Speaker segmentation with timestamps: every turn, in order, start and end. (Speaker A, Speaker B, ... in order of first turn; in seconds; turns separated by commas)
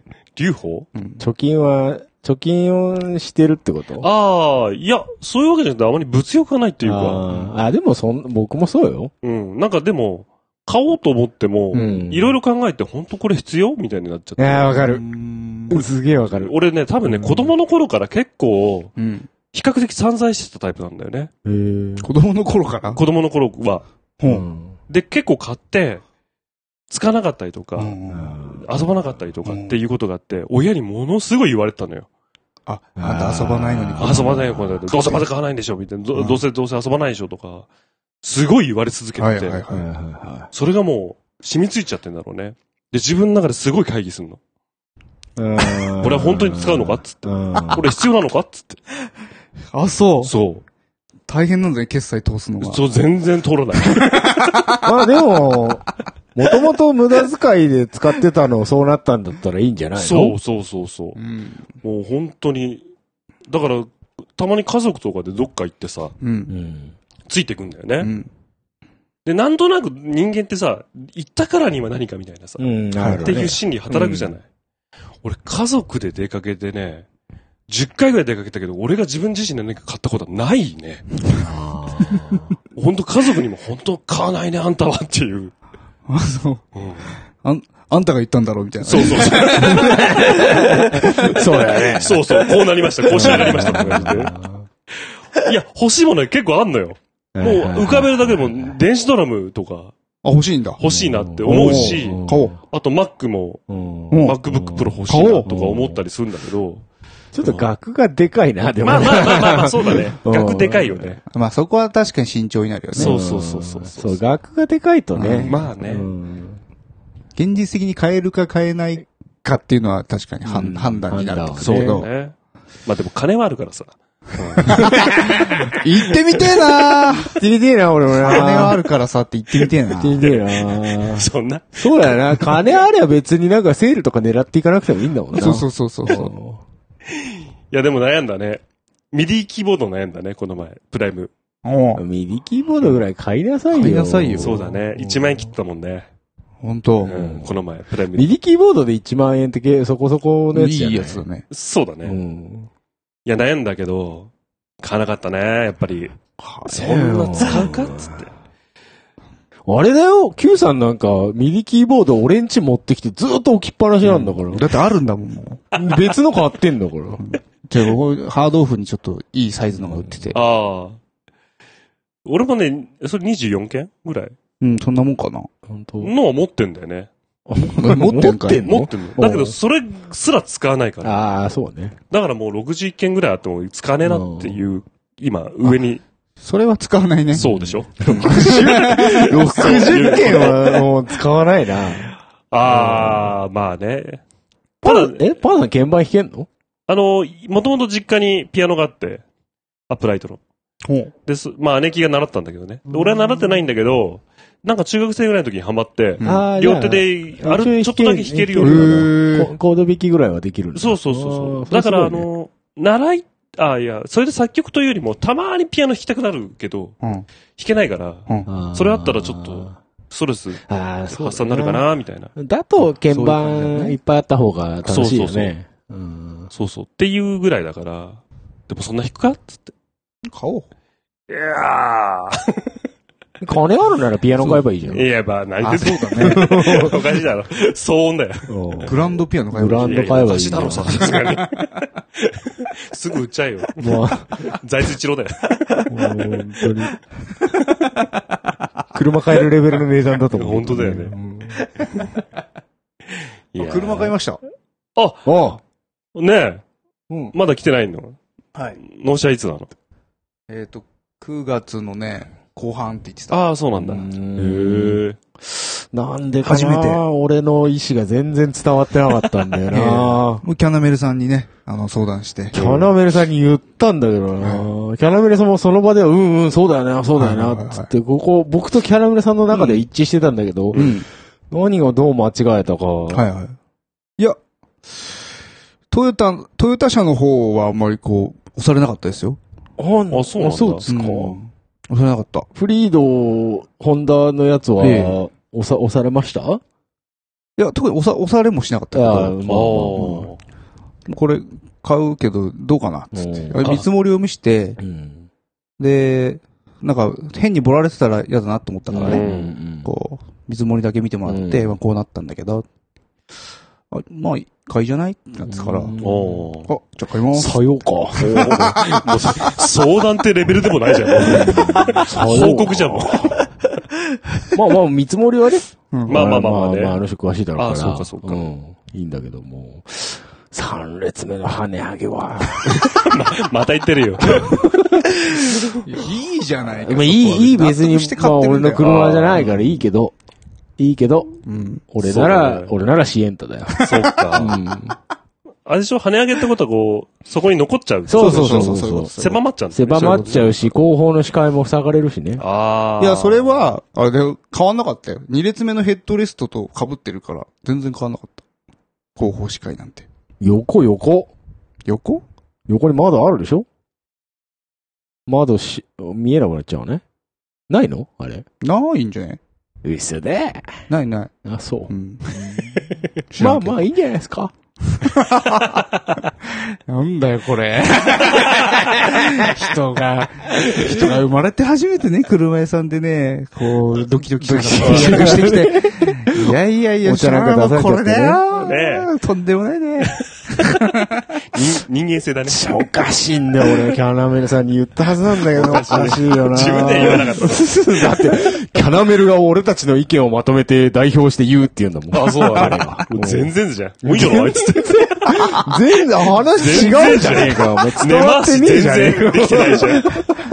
Speaker A: 0.3-0.9, Speaker B: 0.9-1.2, Speaker C: 1.2-4.1, Speaker A: 4.0-7.2, Speaker C: 6.8-9.1, Speaker A: 9.2-14.9, Speaker B: 11.7-12.0, Speaker C: 11.7-12.3, Speaker C: 14.4-15.0, Speaker B: 14.8-15.8, Speaker C: 15.7-16.5, Speaker A: 16.3-18.9, Speaker C: 17.1-17.5, Speaker B: 19.0-19.3, Speaker A: 19.5-21.3, Speaker C: 21.4-22.1, Speaker B: 22.0-23.0, Speaker A: 22.9-23.8, Speaker B: 24.2-24.4, Speaker C: 24.2-24.8, Speaker A: 24.9-26.0, Speaker A: 26.9-27.9, Speaker B: 27.8-28.3, Speaker C: 28.1-28.6, Speaker A: 28.5-32.1, Speaker B: 29.4-29.8, Speaker B: 32.6-34.3, Speaker C: 33.0-34.9, Speaker A: 34.0-37.7, Speaker B: 36.1-36.4, Speaker A: 38.2-39.6, Speaker B: 39.2-39.9, Speaker C: 39.7-40.5, Speaker A: 40.5-44.4, Speaker C: 45.4-47.9, Speaker A: 46.0-48.8, Speaker B: 49.7-50.3, Speaker A: 50.2-50.6, Speaker B: 51.3-52.8, Speaker A: 52.6-54.5, Speaker B: 53.9-54.8, Speaker C: 54.8-60.4, Speaker A: 60.0-61.2, Speaker B: 61.1-61.6, Speaker A: 61.8-62.8, Speaker A: 63.5-66.1, Speaker B: 66.2-66.5, Speaker C: 66.5-66.9, Speaker A: 67.2-68.1, Speaker B: 68.0-68.3, Speaker A: 69.2-74.4, Speaker C: 72.6-74.3, Speaker B: 73.0-73.3, Speaker A: 75.2-77.1, Speaker A: 77.7-81.1, Speaker C: 81.4-82.5, Speaker B: 82.1-82.4, Speaker A: 82.7-85.5, Speaker B: 86.1-86.6, Speaker A: 86.7-87.1, Speaker B: 87.4-91.4, Speaker A: 88.8-94.3, Speaker C: 89.6-92.3, Speaker C: 93.1-94.7, Speaker B: 93.2-93.8, Speaker A: 95.3-99.9, Speaker C: 97.3-98.7, Speaker B: 100.2-100.8, Speaker A: 100.8-106.8, Speaker C: 100.8-102.6, Speaker B: 101.4-102.5, Speaker C: 103.7-106.0, Speaker B: 104.1-104.4, Speaker B: 105.1-105.5, Speaker C: 107.3-111.2, Speaker A: 107.4-107.7, Speaker A: 108.8-111.2, Speaker B: 111.3-113.1, Speaker C: 112.9-116.6, Speaker A: 113.0-114.2, Speaker B: 115.1-115.5, Speaker A: 115.3-116.1, Speaker B: 117.3-122.1, Speaker C: 120.4-122.0, Speaker A: 121.6-122.3, Speaker A: 122.8-125.4, Speaker C: 124.7-125.6, Speaker B: 125.7-127.3, Speaker C: 127.2-128.8, Speaker B: 128.2-130.2, Speaker C: 129.9-136.6, Speaker A: 130.2-132.7, Speaker B: 135.3-136.3, Speaker A: 137.1-141.3, Speaker B: 141.6-142.0, Speaker C: 141.9-145.4, Speaker B: 143.7-144.7, Speaker A: 144.4-146.1, Speaker B: 146.6-147.1, Speaker A: 147.0-148.3, Speaker C: 147.1-147.6, Speaker C: 148.1-151.2, Speaker B: 150.5-151.4, Speaker A: 151.5-152.2, Speaker C: 152.0-152.7, Speaker A: 153.2-156.1, Speaker B: 156.4-156.8, Speaker A: 156.7-158.3, Speaker C: 156.7-158.2, Speaker C: 159.7-164.7, Speaker A: 164.0-164.3, Speaker B: 164.5-165.7, Speaker C: 165.7-167.2, Speaker B: 167.2-170.4, Speaker C: 169.9-170.3, Speaker A: 170.3-171.0, Speaker A: 172.2-174.3, Speaker B: 174.6-175.5, Speaker C: 175.7-176.1, Speaker A: 176.0-177.1, Speaker C: 177.5-179.6, Speaker B: 177.7-178.6, Speaker A: 178.3-181.3, Speaker C: 181.0-182.0, Speaker A: 182.1-186.0, Speaker C: 184.0-184.6, Speaker B: 186.4-187.4, Speaker A: 187.3-190.8, Speaker C: 187.4-193.3, Speaker B: 188.0-190.5, Speaker A: 192.5-194.2, Speaker A: 194.8-195.3, Speaker C: 194.8-196.5, Speaker A: 196.9-199.2, Speaker A: 199.9-200.4, Speaker B: 200.8-201.1, Speaker A: 201.2-209.1, Speaker B: 206.2-206.5, Speaker C: 206.2-212.3, Speaker B: 208.6-209.5, Speaker A: 210.7-217.0, Speaker B: 217.0-217.3, Speaker A: 217.6-222.3, Speaker C: 218.5-219.7, Speaker C: 220.7-226.5, Speaker B: 223.1-224.0, Speaker A: 224.8-225.5, Speaker A: 226.5-229.7, Speaker B: 230.3-230.7, Speaker A: 231.3-232.7, Speaker C: 233.4-235.1, Speaker A: 234.8-239.0, Speaker B: 235.6-236.6, Speaker C: 236.2-236.9, Speaker C: 238.5-239.0, Speaker B: 238.9-241.5, Speaker C: 239.5-241.2, Speaker A: 239.8-245.9, Speaker C: 243.8-244.4, Speaker C: 245.9-247.0, Speaker C: 248.9-251.6, Speaker A: 250.3-251.2, Speaker A: 253.5-254.1, Speaker B: 253.6-254.4, Speaker A: 254.9-255.3, Speaker C: 255.2-255.6, Speaker A: 256.1-256.6, Speaker A: 257.3-258.1, Speaker A: 258.8-259.7, Speaker B: 260.5-263.4, Speaker A: 263.3-265.2, Speaker C: 263.8-270.4, Speaker B: 266.4-267.0, Speaker B: 269.7-272.6, Speaker C: 272.5-280.9, Speaker A: 272.5-272.9, Speaker B: 274.4-274.7, Speaker B: 277.1-277.9, Speaker B: 279.5-279.8, Speaker B: 280.7-281.1, Speaker C: 281.5-283.3, Speaker B: 283.1-283.6, Speaker B: 285.9-289.4, Speaker C: 289.8-291.4, Speaker A: 290.1-290.8, Speaker B: 290.9-292.5, Speaker C: 292.5-296.6, Speaker B: 294.8-295.1, Speaker B: 297.6-299.4, Speaker C: 298.9-300.3, Speaker A: 299.4-300.4, Speaker B: 301.1-304.8, Speaker C: 303.1-303.8, Speaker C: 304.8-305.3, Speaker B: 305.8-309.2, Speaker C: 308.9-309.9, Speaker A: 309.0-309.5, Speaker B: 309.8-312.6, Speaker C: 311.2-311.8, Speaker B: 313.9-316.0, Speaker C: 315.4-316.5, Speaker A: 316.0-316.7, Speaker B: 316.6-317.6, Speaker C: 317.3-319.0, Speaker B: 318.1-319.4, Speaker A: 318.2-323.4, Speaker C: 321.2-323.4, Speaker B: 321.3-321.9, Speaker C: 324.5-333.1, Speaker B: 325.9-326.2, Speaker A: 326.1-327.0, Speaker A: 327.5-328.5, Speaker A: 332.7-334.7, Speaker C: 334.3-334.9, Speaker B: 335.8-339.1, Speaker C: 336.7-340.1, Speaker A: 338.8-339.6, Speaker C: 340.8-341.3, Speaker B: 341.4-341.8, Speaker C: 341.9-344.9, Speaker A: 342.0-342.7, Speaker B: 343.8-344.0, Speaker A: 343.8-344.6, Speaker A: 345.6-350.6, Speaker C: 348.1-349.1, Speaker B: 348.1-349.4, Speaker C: 349.7-352.4, Speaker A: 352.4-353.5, Speaker B: 353.0-358.4, Speaker B: 359.1-360.1, Speaker C: 360.4-361.3, Speaker B: 361.9-362.2, Speaker C: 362.7-363.6, Speaker C: 365.3-367.0, Speaker C: 367.7-368.4, Speaker B: 368.6-369.4, Speaker C: 369.8-370.7, Speaker B: 370.9-371.3, Speaker C: 371.4-372.8, Speaker B: 371.9-372.6, Speaker B: 373.3-373.8, Speaker C: 373.4-374.5, Speaker B: 375.0-375.8, Speaker B: 376.9-391.1, Speaker C: 380.7-380.9, Speaker C: 384.4-386.5, Speaker A: 384.8-385.5, Speaker C: 387.0-388.4, Speaker A: 388.6-389.1, Speaker A: 391.5-392.8, Speaker C: 392.5-403.5, Speaker A: 395.5-397.8, Speaker B: 395.7-396.2, Speaker A: 402.1-405.3, Speaker C: 404.0-410.3, Speaker B: 405.3-407.5, Speaker A: 406.6-410.3